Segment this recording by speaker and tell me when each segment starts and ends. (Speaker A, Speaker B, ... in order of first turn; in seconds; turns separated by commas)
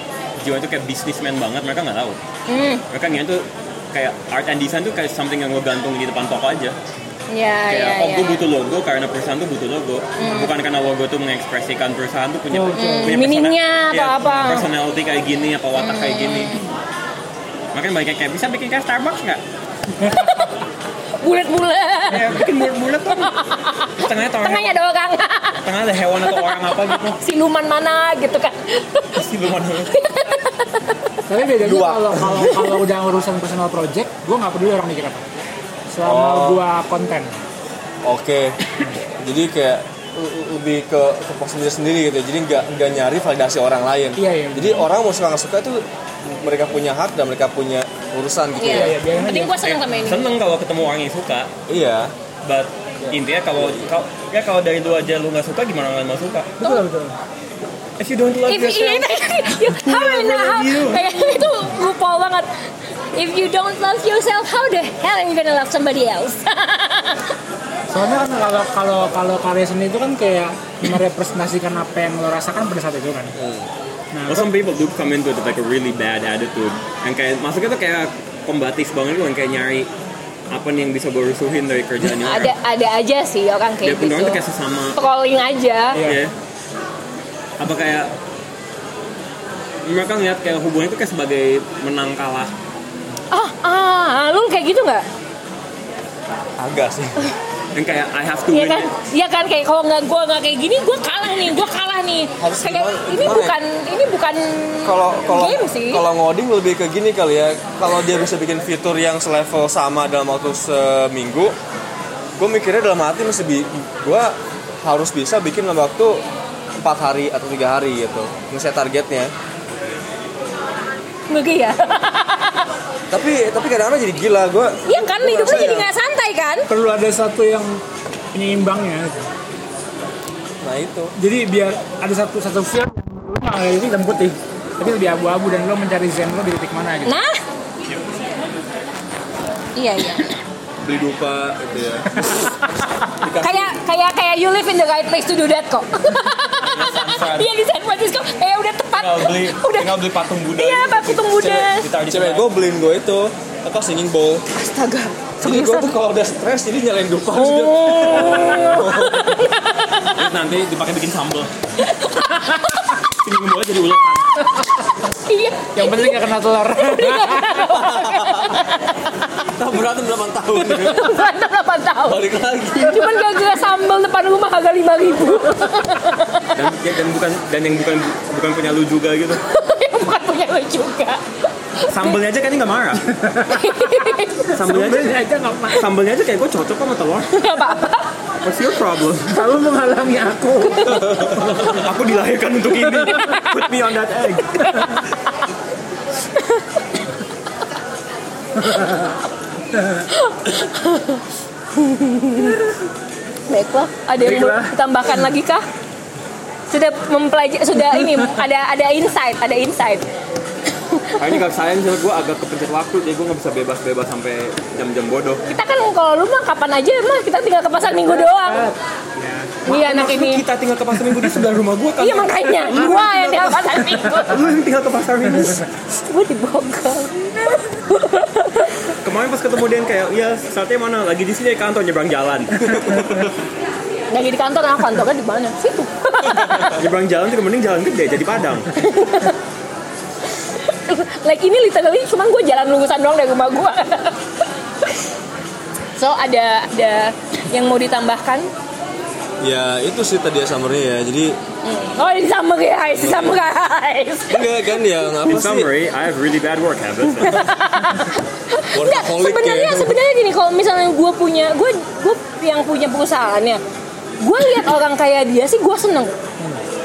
Speaker A: 0.4-2.2, Speaker B: 2.5-2.8, Speaker A: 2.9-6.8, Speaker B: 7.3-8.4, Speaker A: 7.7-16.6, Speaker B: 10.2-10.5, Speaker C: 12.5-13.2, Speaker B: 12.7-14.7, Speaker B: 15.8-16.6, Speaker A: 17.7-19.4, Speaker B: 20.1-20.6, Speaker B: 21.2-22.4, Speaker A: 22.1-23.3, Speaker B: 23.1-25.6, Speaker A: 24.0-24.8, Speaker A: 25.6-27.2, Speaker B: 26.3-29.2, Speaker A: 29.1-29.9, Speaker B: 29.9-31.2, Speaker C: 31.3-35.2, Speaker D: 31.6-32.7, Speaker C: 35.9-37.4, Speaker D: 36.0-36.6, Speaker D: 38.0-49.0, Speaker C: 44.2-44.9, Speaker B: 48.6-50.3, Speaker C: 48.6-49.8, Speaker A: 49.6-51.5, Speaker D: 51.7-52.1, Speaker A: 52.5-56.5, Speaker D: 53.0-53.9, Speaker C: 56.6-57.2, Speaker A: 58.0-61.0, Speaker B: 58.5-62.5, Speaker B: 63.1-67.3, Speaker C: 67.9-73.4, Speaker D: 73.4-73.7, Speaker C: 74.1-74.5, Speaker A: 74.3-79.9, Speaker A: 80.5-82.5, Speaker B: 82.1-84.4, Speaker A: 83.8-85.0, Speaker B: 85.0-86.0, Speaker C: 85.9-86.2, Speaker A: 86.0-86.3, Speaker A: 87.6-88.1, Speaker A: 89.8-92.5, Speaker B: 93.3-95.0, Speaker D: 96.6-97.3, Speaker A: 97.7-98.9, Speaker B: 98.5-106.0, Speaker D: 102.4-103.5, Speaker D: 104.8-111.5, Speaker D: 112.4-116.2, Speaker D: 116.8-119.3, Speaker B: 121.3-122.7, Speaker D: 123.1-125.9, Speaker B: 124.8-126.7, Speaker C: 126.7-129.3, Speaker D: 130.6-131.1, Speaker C: 131.2-137.2, Speaker B: 137.1-137.4, Speaker A: 137.8-138.2, Speaker B: 139.8-140.4, Speaker D: 140.8-142.4, Speaker C: 142.1-142.5, Speaker D: 143.1-143.7, Speaker B: 143.4-149.9, Speaker A: 146.4-147.5, Speaker A: 149.0-152.5, Speaker B: 150.6-151.9, Speaker D: 152.1-154.5, Speaker B: 154.6-155.9, Speaker D: 155.4-159.5, Speaker B: 157.3-160.2, Speaker A: 160.1-161.5, Speaker B: 161.8-162.9, Speaker A: 163.0-164.3, Speaker B: 165.1-169.1, Speaker C: 165.8-167.7, Speaker D: 167.7-168.7, Speaker D: 169.4-171.1, Speaker A: 170.6-170.9, Speaker B: 170.8-176.5, Speaker D: 172.1-173.3, Speaker C: 175.3-176.0, Speaker A: 176.5-179.4, Speaker B: 179.5-182.2, Speaker A: 181.9-183.1, Speaker C: 183.1-185.8, Speaker B: 183.5-184.5, Speaker A: 184.5-187.3, Speaker B: 187.3-188.1, Speaker A: 188.4-189.4, Speaker C: 189.3-191.9, Speaker A: 190.9-195.1, Speaker C: 192.8-193.3, Speaker B: 193.1-193.7, Speaker B: 194.5-195.1, Speaker B: 196.3-196.8, Speaker C: 198.6-199.1, Speaker C: 199.8-200.1, Speaker B: 200.1-201.2, Speaker B: 201.7-202.6, Speaker B: 203.5-205.7, Speaker C: 204.2-204.7, Speaker B: 206.7-210.1, Speaker C: 207.9-208.3, Speaker B: 210.7-211.2, Speaker A: 211.2-215.5, Speaker B: 215.4-218.7, Speaker C: 217.9-219.6, Speaker A: 219.6-225.7, Speaker B: 219.7-220.4, Speaker B: 222.0-224.4, Speaker B: 225.9-228.8, Speaker A: 229.0-233.3, Speaker B: 234.1-236.8, Speaker A: 236.7-238.7, Speaker B: 238.7-239.4, Speaker B: 240.4-244.3, Speaker B: 246.0-248.5, Speaker D: 249.4-251.3, Speaker B: 251.7-254.7, Speaker D: 252.9-253.4, Speaker D: 254.3-255.7, Speaker A: 255.3-257.5, Speaker B: 257.2-263.6, Speaker D: 258.7-260.0, Speaker B: 264.2-266.1